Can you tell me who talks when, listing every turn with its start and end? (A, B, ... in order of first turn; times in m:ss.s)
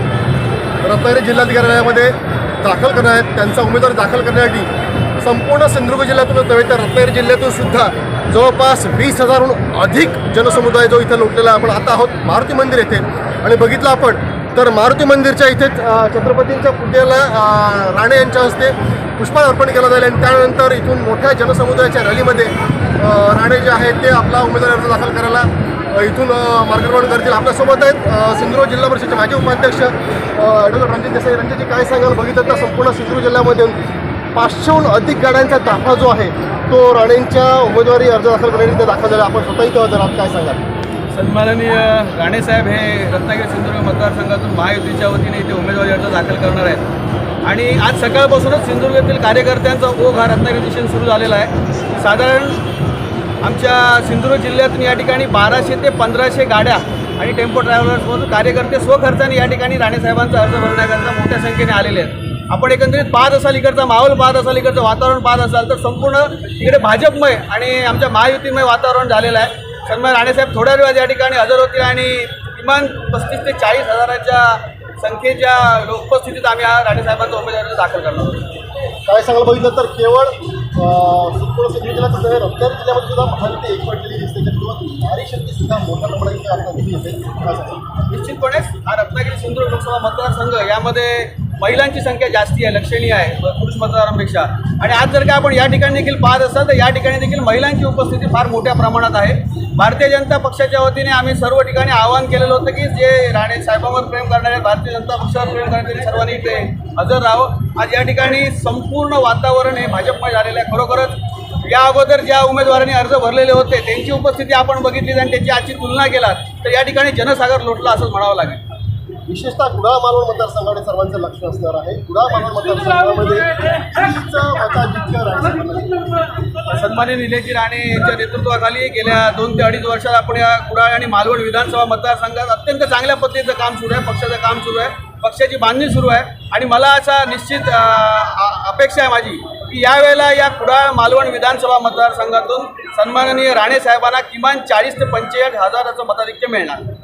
0:00.8-0:33.8 A
0:34.4-0:40.6 A
0:41.1-0:46.9 B
0:47.4-0:52.6 B
0:53.4-1:18.5 B
1:19.0-1:27.8 A
1:28.1-1:51.1 B
1:51.7-1:58.6 B
1:59.3-2:06.1 A
2:06.7-2:26.8 B